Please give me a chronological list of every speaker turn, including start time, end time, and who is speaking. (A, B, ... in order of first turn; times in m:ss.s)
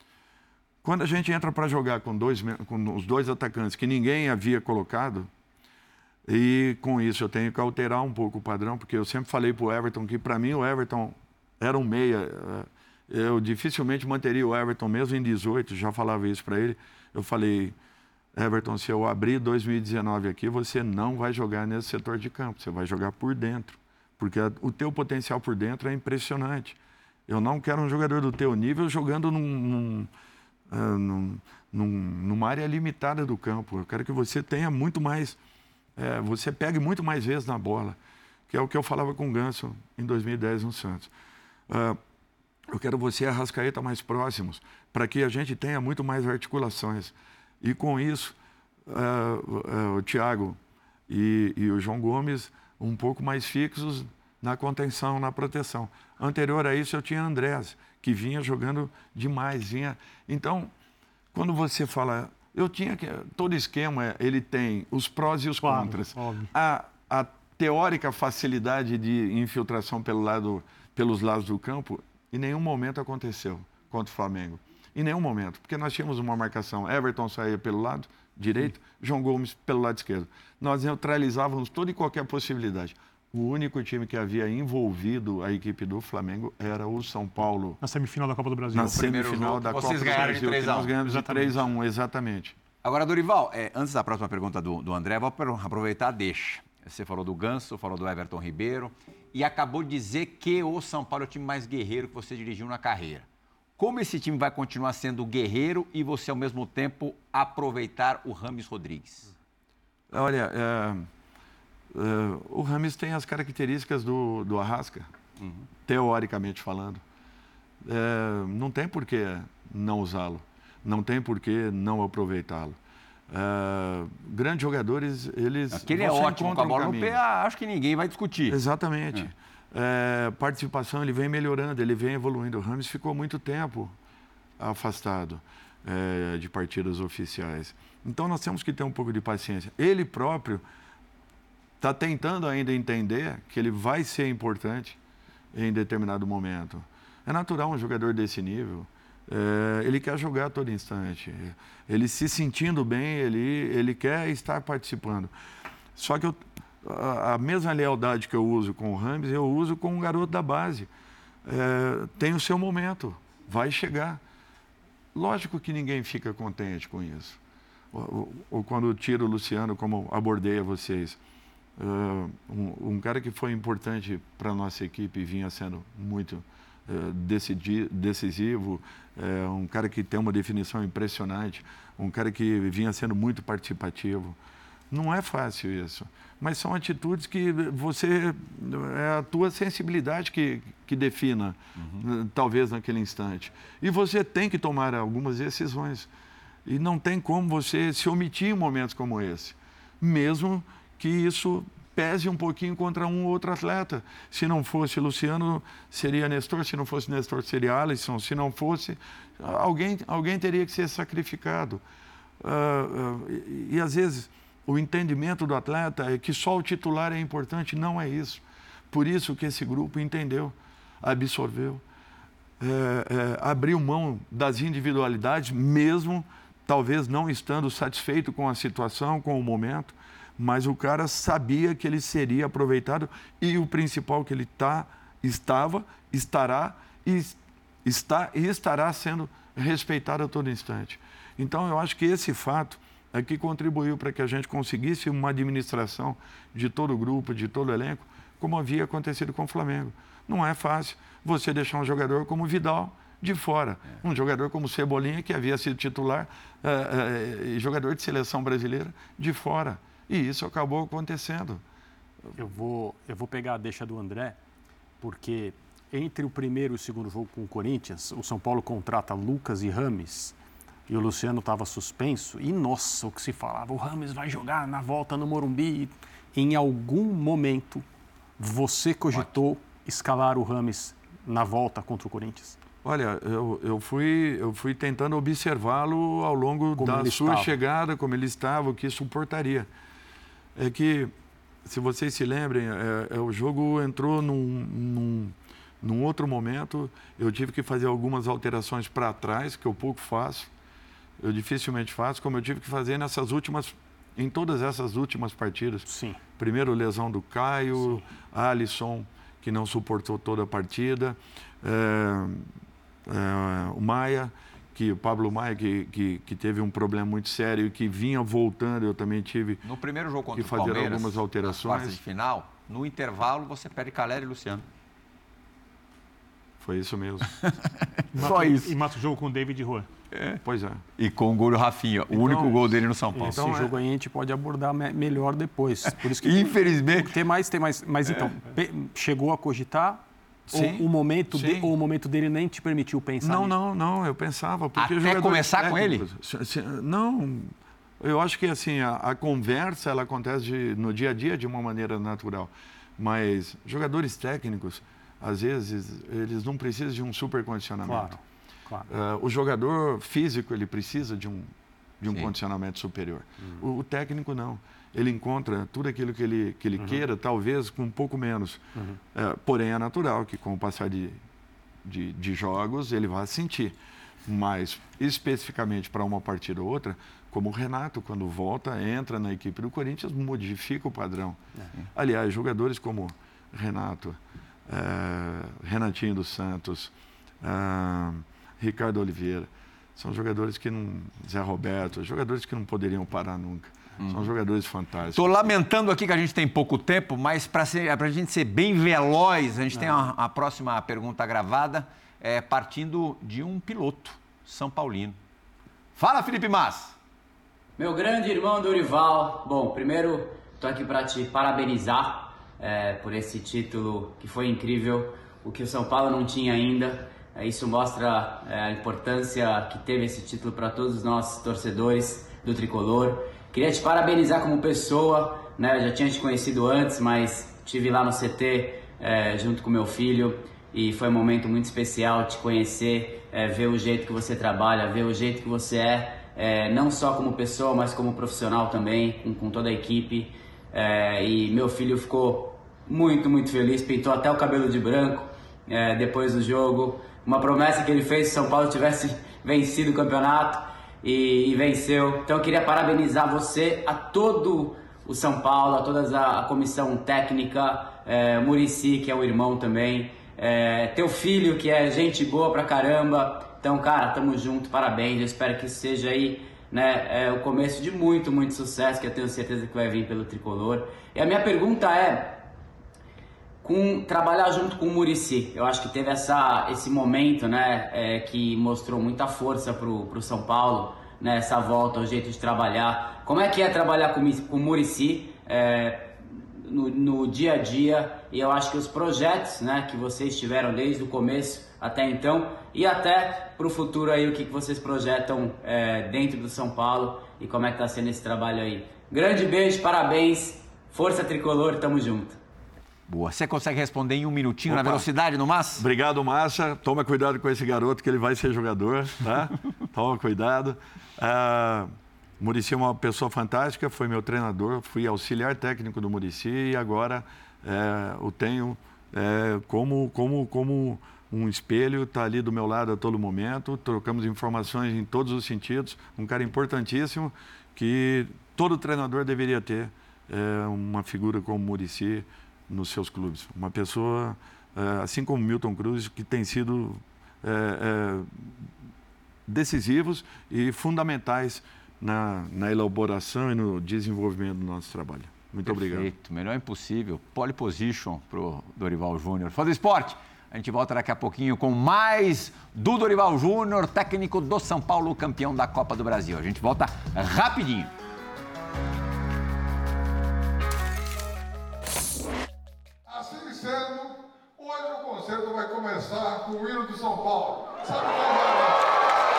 0:00.8-0:05.3 A
0:06.2-0:17.7 A
0:18.4-0:26.8 A
0:27.3-0:30.1 A
0:30.7-0:35.4 A
0:36.0-0:38.0 A
0:38.5-0:41.1 A
0:41.7-0:42.0 A
0:42.7-0:50.6 A
0:51.1-1:00.7 A
1:01.3-1:27.8 A
1:05.6-1:06.5 B
1:27.8-1:29.0 B
1:28.7-1:32.5 A
1:28.8-1:30.9 C
1:30.0-1:30.4 B
1:31.0-1:31.6 B
1:32.8-1:43.2 C
1:43.8-1:49.3 C
1:50.1-1:51.1 A
1:51.9-1:55.1 A
1:55.4-1:55.6 C
1:55.8-1:57.0 A
1:57.8-2:02.8 A
2:03.3-2:07.2 A
2:05.7-2:08.6 C
2:08.5-2:13.9 A
2:14.6-2:20.6 A
2:21.8-2:25.0 A
2:25.5-2:35.3 A
2:36.0-2:40.9 A
2:41.4-2:44.2 A
2:45.1-2:47.4 A
2:47.9-2:51.2 A
2:51.8-3:04.4 A
3:04.9-3:16.1 A
3:11.8-3:12.0 C
3:16.6-3:31.8 A
3:32.4-3:41.8 A
3:42.6-4:21.6 A
4:22.4-4:24.4 D
4:25.0-4:30.4 D
4:30.9-4:37.8 D
4:38.4-4:42.6 D
4:42.8-4:49.7 A
4:46.8-4:47.5 D
4:50.6-4:51.1 A
4:51.6-5:00.5 A
5:01.2-5:05.9 A
5:05.9-5:06.2 D
5:06.4-5:12.5 A
5:13.0-5:19.6 A
5:19.6-5:24.6 C
5:20.3-5:22.0 A
5:26.6-5:27.4 A
5:27.4-5:28.7 C
5:28.1-5:29.9 B
5:30.1-5:30.4 C
5:30.4-5:30.8 A
5:31.0-5:33.4 C
5:32.1-5:33.7 A
5:33.2-5:43.5 D
5:36.0-5:37.2 C
5:40.5-5:40.8 C
5:41.3-5:41.7 A
5:43.2-5:58.2 A
5:44.8-5:46.0 C
5:57.8-5:58.9 D
5:58.9-6:11.2 A
6:11.8-6:35.5 A
6:35.1-6:45.2 C
6:46.0-6:46.9 C
6:47.8-7:52.4 E
7:53.6-8:22.4 E
8:23.1-8:25.8 C
8:24.7-8:25.1 A
8:25.8-8:58.5 A
8:59.5-9:06.1 A
9:05.6-9:17.9 C
9:23.1-9:28.7 F